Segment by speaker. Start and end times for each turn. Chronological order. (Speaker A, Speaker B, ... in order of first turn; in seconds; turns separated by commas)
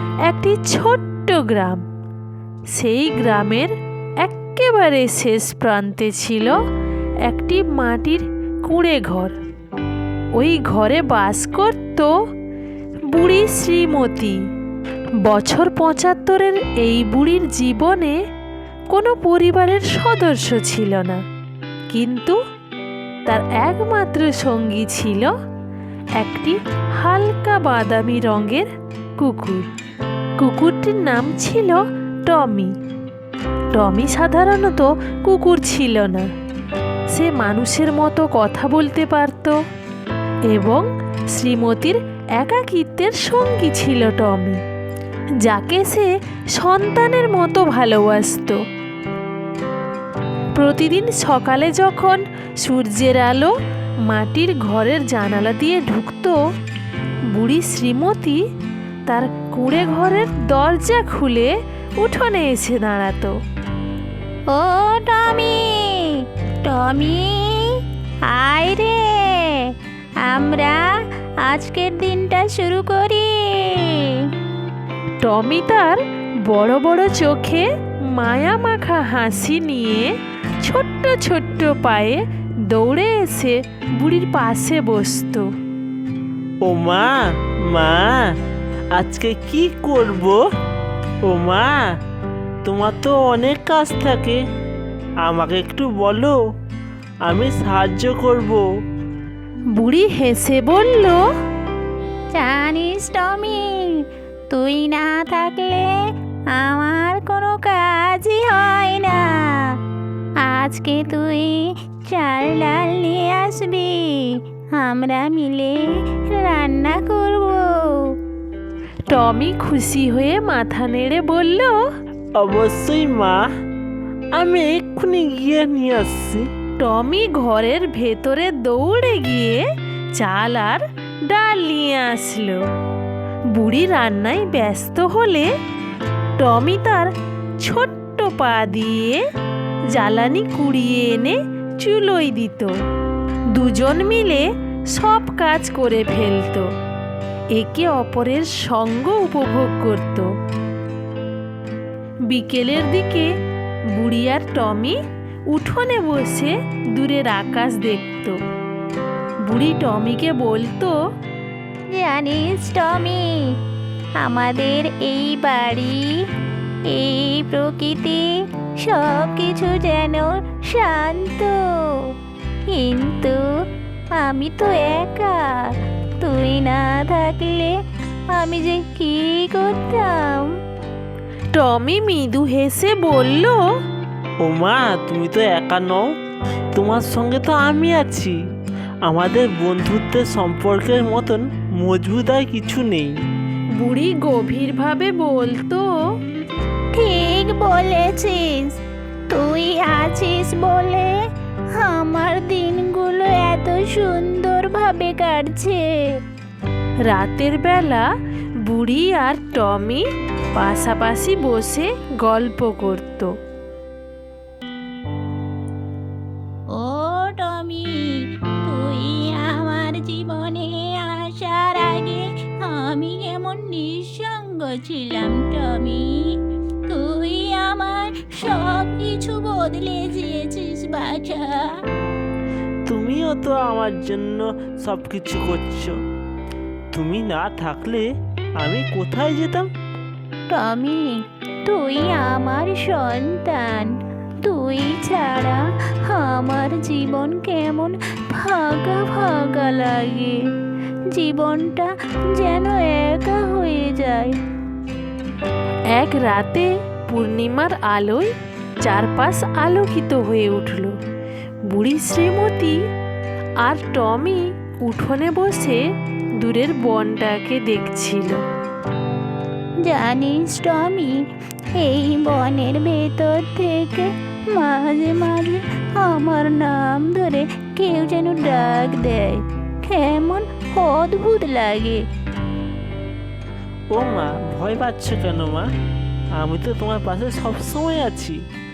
Speaker A: 0.3-1.8, Speaker A: 2.7-3.7, Speaker A: 4.2-6.5, Speaker A: 7.3-9.3, Speaker A: 10.4-12.1, Speaker A: 13.1-14.3, Speaker A: 15.2-18.1, Speaker A: 18.9-21.2, Speaker A: 21.9-22.4, Speaker A: 23.3-25.3, Speaker A: 26.2-29.6, Speaker A: 30.4-32.7, Speaker A: 33.8-36.3, Speaker A: 37.1-39.6, Speaker A: 40.5-44.6, Speaker A: 45.4-48.6, Speaker A: 50.5-53.5, Speaker A: 54.1-56.4, Speaker A: 57.3-58.4, Speaker A: 59.1-63.3, Speaker B: 64.5-74.3, Speaker A: 75.2-77.6, Speaker A: 78.2-80.1, Speaker A: 80.6-85.5, Speaker C: 86.6-88.3, Speaker C: 88.9-90.4, Speaker C: 91.3-91.8, Speaker C: 92.6-94.4, Speaker C: 95.2-96.4, Speaker C: 97.2-98.6, Speaker A: 99.8-101.2, Speaker B: 102.3-105.9, Speaker B: 106.5-109.8, Speaker B: 110.4-118.1, Speaker A: 119.1-121.8, Speaker C: 122.4-123.4, Speaker C: 124.3-126.4, Speaker A: 126.8-129.6, Speaker A: 130.2-132.6, Speaker A: 133.6-135.5, Speaker A: 136.4-137.1, Speaker A: 137.6-139.2, Speaker A: 139.9-142.7, Speaker A: 143.5-146.7, Speaker A: 147.6-150.3, Speaker A: 152.3-153.3, Speaker A: 153.9-154.9, Speaker A: 155.5-158.4, Speaker A: 159.4-160.9, Speaker B: 161.9-163.5, Speaker B: 164.2-166.2, Speaker B: 166.9-171.6, Speaker B: 172.7-173.4, Speaker B: 174.2-175.4, Speaker B: 176.2-177.7, Speaker B: 178.3-180.5, Speaker A: 181.5-183.6, Speaker C: 184.4-186.1, Speaker C: 186.7-188.3, Speaker C: 189.0-193.1, Speaker A: 193.8-195.8, Speaker B: 196.9-198.8, Speaker B: 199.3-201.1, Speaker B: 201.7-206.0, Speaker A: 207.1-208.0, Speaker A: 208.7-210.0, Speaker A: 210.6-213.3, Speaker B: 216.7-231.7, Speaker C: 232.9-236.0, Speaker C: 236.9-239.7, Speaker B: 240.5-243.9, Speaker B: 244.4-250.4, Speaker B: 251.1-254.4, Speaker A: 255.9-258.3, Speaker A: 258.8-260.9, Speaker A: 261.7-262.7, Speaker A: 263.6-265.8, Speaker A: 266.4-268.4, Speaker B: 269.8-271.1, Speaker B: 271.8-282.0, Speaker C: 283.9-285.7, Speaker C: 286.4-288.4